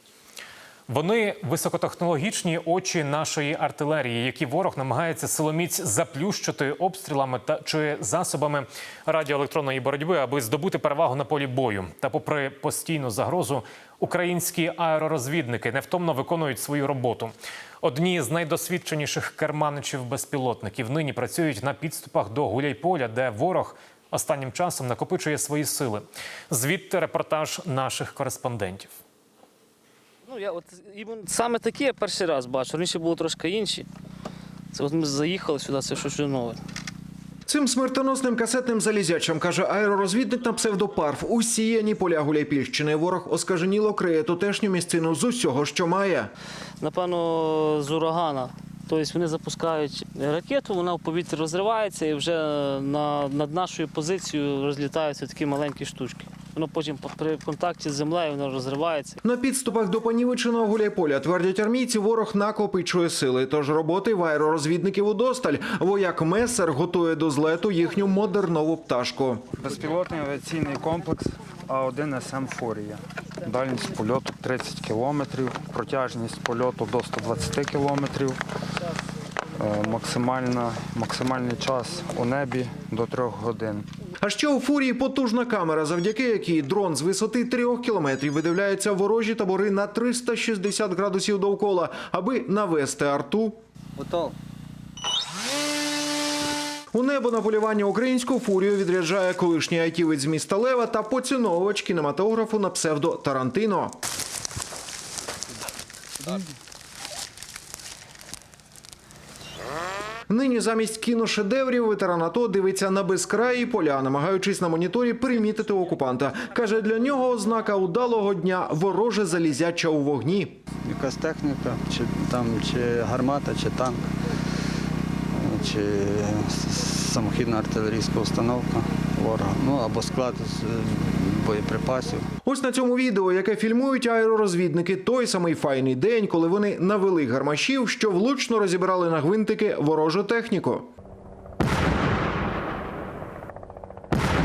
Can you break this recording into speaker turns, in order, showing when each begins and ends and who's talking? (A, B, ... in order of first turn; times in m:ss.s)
0:00.9-0:28.9 A
0:30.3-0:33.9 B
0:34.7-0:36.6 B
0:37.5-0:46.3 C
0:46.8-0:59.2 B
0:59.2-1:09.5 C
1:09.6-1:18.4 D
1:19.6-1:23.9 D
1:24.2-1:33.6 C
1:36.9-1:44.0 C
1:50.3-2:00.6 C
2:00.8-2:04.1 E
2:05.4-2:12.3 E
2:12.5-2:20.9 C